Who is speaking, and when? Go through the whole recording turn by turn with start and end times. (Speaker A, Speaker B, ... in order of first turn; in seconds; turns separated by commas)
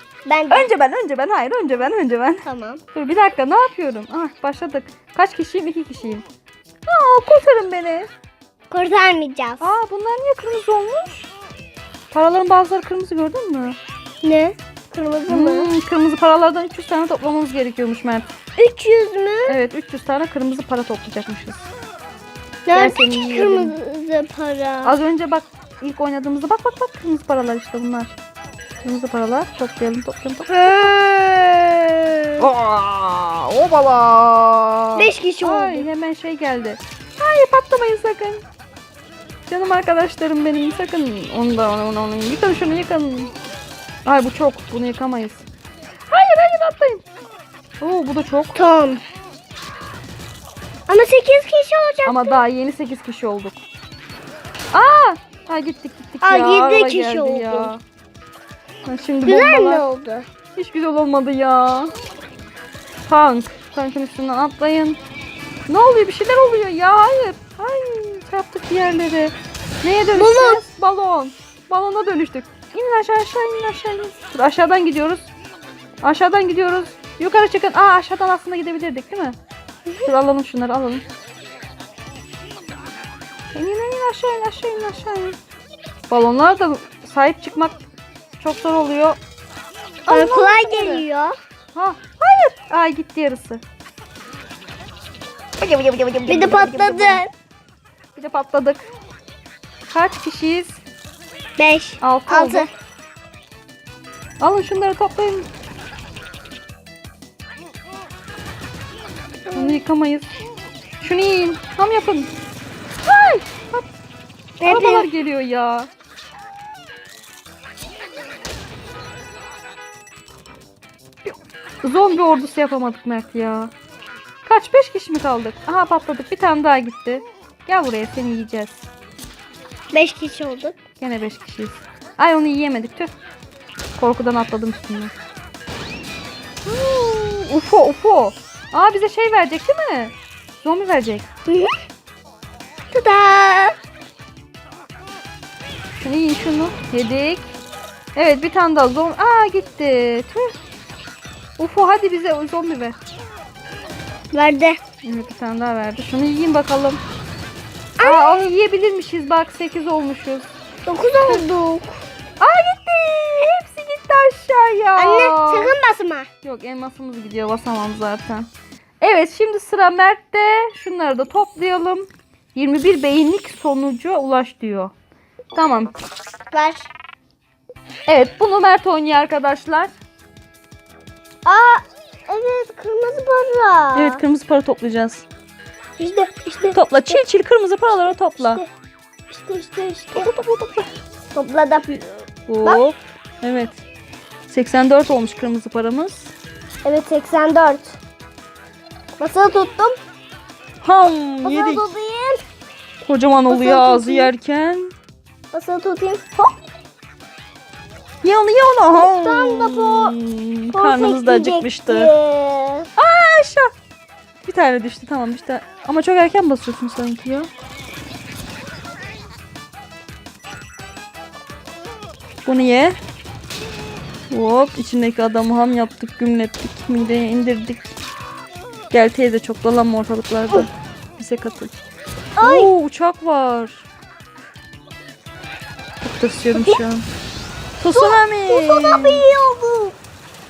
Speaker A: 0.2-0.7, Speaker B: 0.5-6.2, Speaker A: 2.5-2.8, Speaker B: 6.9-8.1, Speaker A: 8.7-9.7, Speaker B: 9.6-11.3, Speaker B: 12.1-13.8, Speaker A: 14.2-15.7, Speaker B: 15.3-18.2, Speaker A: 18.6-19.6, Speaker B: 19.5-21.7, Speaker A: 22.6-24.9, Speaker B: 22.7-23.7, Speaker B: 24.8-28.1, Speaker B: 28.8-30.9, Speaker A: 30.5-32.5, Speaker B: 32.4-38.4, Speaker A: 35.0-35.9, Speaker B: 39.5-43.3, Speaker B: 44.0-45.5, Speaker B: 46.1-47.0, Speaker B: 47.8-48.6, Speaker A: 48.5-49.0, Speaker A: 50.9-52.4, Speaker B: 52.0-53.6, Speaker B: 54.7-57.8, Speaker A: 56.2-57.7, Speaker B: 58.8-59.8, Speaker A: 59.2-60.3, Speaker B: 60.5-61.9, Speaker B: 63.0-65.0, Speaker B: 65.7-75.2, Speaker A: 70.1-70.6, Speaker B: 76.0-79.4, Speaker B: 80.0-81.0, Speaker B: 83.5-85.4, Speaker B: 86.1-87.8, Speaker B: 88.4-89.2, Speaker B: 90.1-91.0, Speaker A: 90.1-91.3, Speaker B: 91.7-93.6, Speaker B: 95.6-97.2, Speaker A: 96.3-97.3, Speaker B: 98.2-98.9, Speaker B: 99.9-100.8, Speaker A: 101.6-102.7, Speaker B: 102.0-102.7, Speaker B: 104.4-105.5, Speaker A: 109.5-109.8, Speaker B: 109.5-110.3, Speaker B: 111.0-112.3, Speaker B: 113.0-113.8, Speaker A: 114.6-115.1, Speaker B: 114.7-115.9, Speaker B: 121.2-123.7, Speaker B: 124.4-128.8, Speaker A: 129.9-130.8, Speaker B: 131.0-133.1, Speaker B: 133.9-135.1, Speaker B: 136.6-141.3, Speaker A: 141.5-141.7, Speaker A: 142.9-143.8, Speaker B: 145.9-147.5, Speaker B: 148.1-150.5, Speaker B: 151.6-153.0, Speaker A: 154.3-154.8, Speaker B: 155.0-157.0, Speaker A: 158.0-158.4, Speaker B: 158.0-160.4, Speaker A: 160.8-162.0, Speaker B: 162.4-165.7, Speaker A: 165.0-166.3, Speaker B: 166.4-168.5, Speaker B: 169.0-174.9, Speaker B: 175.5-175.9, Speaker A: 176.5-176.9, Speaker B: 178.1-179.9, Speaker A: 181.4-184.2, Speaker B: 183.9-185.2, Speaker A: 186.0-187.2, Speaker B: 186.7-188.6, Speaker A: 188.3-188.7, Speaker A: 189.3-190.3, Speaker B: 190.1-190.9, Speaker A: 191.3-191.9, Speaker B: 191.9-193.8, Speaker B: 194.5-196.3, Speaker A: 196.8-197.9, Speaker A: 199.2-200.0, Speaker B: 200.8-201.8, Speaker A: 201.4-202.4, Speaker B: 203.0-204.9, Speaker A: 203.5-204.3, Speaker A: 205.5-206.5, Speaker B: 208.2-212.1, Speaker A: 208.9-210.1, Speaker A: 210.7-212.9, Speaker B: 213.0-213.7, Speaker B: 214.4-217.5, Speaker B: 222.4-223.0, Speaker B: 224.3-227.9, Speaker B: 228.9-231.7, Speaker A: 232.4-232.7, Speaker B: 232.4-233.9, Speaker B: 236.0-237.0, Speaker A: 236.5-236.8, Speaker B: 237.8-239.2, Speaker A: 237.9-239.9